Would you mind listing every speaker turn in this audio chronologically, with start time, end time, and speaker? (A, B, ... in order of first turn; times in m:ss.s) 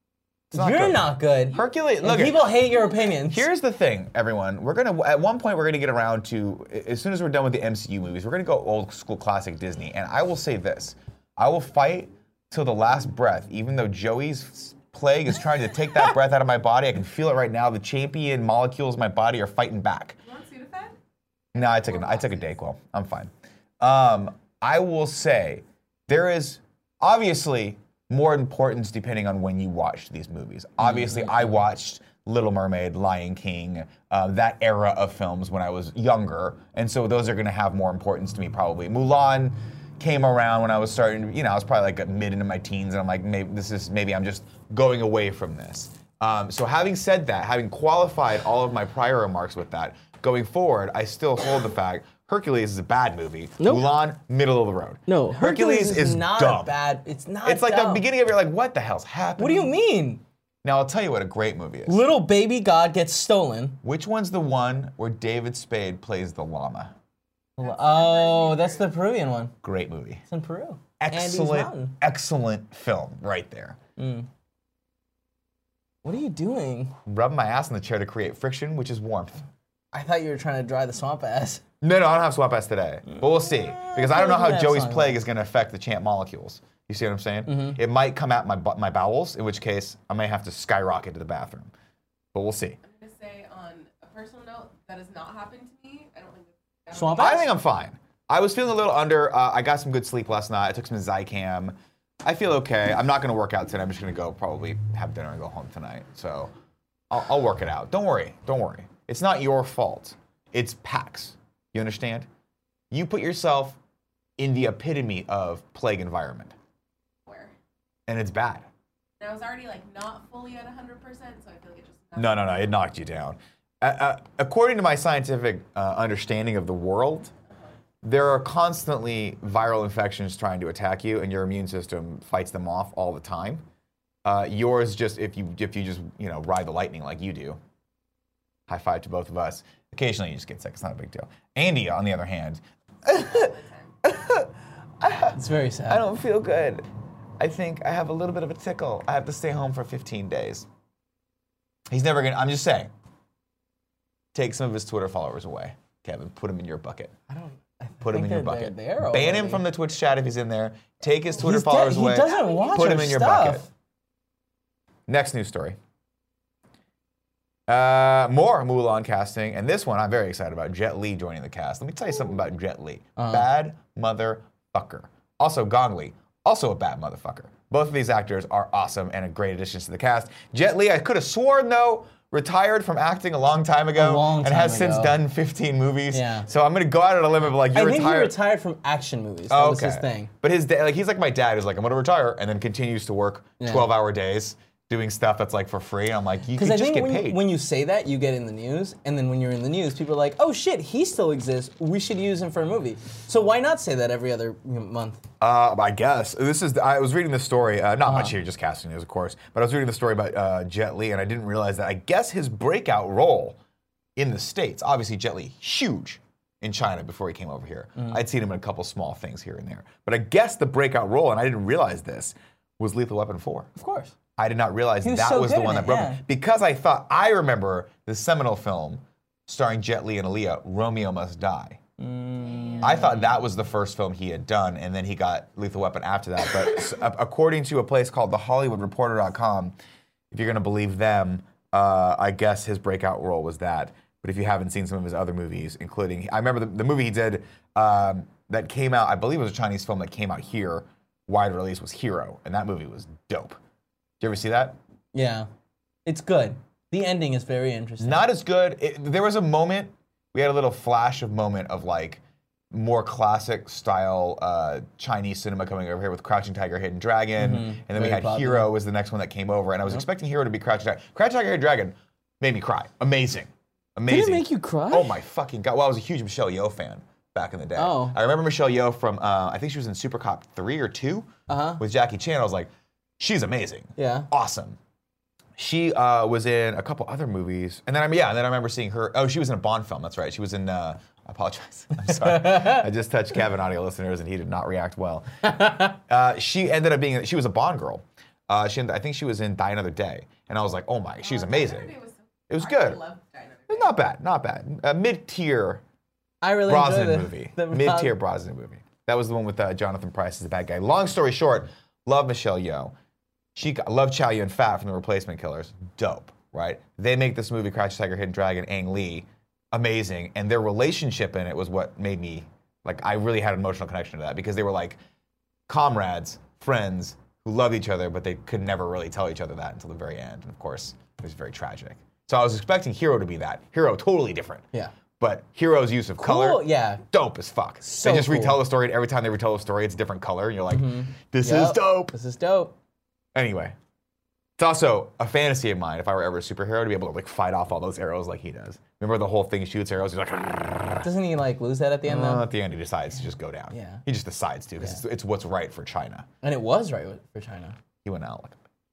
0:00.5-0:02.6 A
0:00.5-0:03.5 B
0:03.2-0:20.2 A
0:20.2-0:21.0 C
0:21.5-0:22.5 C
0:21.5-0:56.8 A
0:30.8-0:31.5 B
0:53.6-0:53.9 B
0:55.1-0:58.1 B
0:57.4-0:59.8 A
0:59.4-1:00.2 B
1:00.6-1:02.0 A
1:01.9-1:03.8 B
1:03.8-1:06.9 A
1:07.6-1:09.5 B
1:07.6-1:09.0 C
1:09.6-1:10.2 A
1:10.3-1:12.0 B
1:11.0-1:13.8 A
1:14.0-1:14.3 B
1:16.0-1:17.0 B
1:17.1-1:19.4 A
1:19.9-1:21.6 B
1:21.8-1:31.7 A
1:23.1-1:25.2 B
1:27.5-1:27.8 B
1:32.3-1:32.8 A
1:32.8-1:37.5 C
1:36.9-1:37.5 B
1:37.1-1:46.5 A
1:47.1-1:52.3 A
1:52.9-1:53.8 A
1:54.4-1:56.6 A
1:57.3-1:57.5 C
1:58.1-1:58.7 A
1:59.2-2:02.8 C
2:02.2-2:07.3 A
2:08.0-2:13.6 A
2:14.2-2:17.6 A
2:18.7-2:26.8 A
2:23.1-2:23.9 C
2:25.3-2:26.1 B
2:27.4-2:30.7 A
2:31.9-2:32.9 A
2:34.3-2:37.1 A
2:37.3-2:39.6 B
2:38.0-2:43.7 A
2:41.4-2:43.7 B
2:42.2-2:43.1 C
2:45.1-2:45.8 A
2:47.7-3:08.4 A
2:53.2-2:53.5 B
3:04.0-3:05.2 B
3:06.1-3:06.5 B
3:07.7-3:10.3 B
3:09.5-3:17.5 A
3:13.6-3:13.9 B
3:16.6-3:25.2 B
3:25.4-3:33.6 A
3:28.0-3:28.4 B
3:34.2-3:43.7 A
3:38.0-3:38.2 B
3:43.8-3:44.2 B
3:44.4-3:51.8 A
3:45.0-3:46.2 B
3:52.0-3:53.3 B
3:52.5-3:52.8 C
3:52.8-3:59.8 A
4:00.3-4:13.6 A
4:14.2-4:14.8 A
4:15.1-4:15.5 B
4:16.1-4:18.2 B
4:18.0-4:44.8 A
4:27.4-4:28.7 B
4:34.1-4:35.2 B
4:37.8-4:38.2 B
4:41.5-4:41.8 B
4:44.0-4:44.3 B
4:45.6-5:01.9 A
4:52.0-4:52.8 B
5:01.2-5:04.0 C
5:02.5-5:03.0 A
5:03.7-5:05.8 A
5:06.4-5:08.2 B
5:06.6-5:12.9 A
5:13.6-5:25.0 A
5:25.7-5:34.7 A
5:35.2-5:42.1 A
5:36.2-5:37.0 B
5:37.8-5:38.6 B
5:40.7-5:42.7 B
5:43.4-5:43.8 A
5:44.6-5:51.1 A
5:51.0-5:52.5 B
5:52.0-5:56.3 A
5:53.7-5:54.0 B
5:56.4-5:57.8 B
5:58.0-5:58.6 A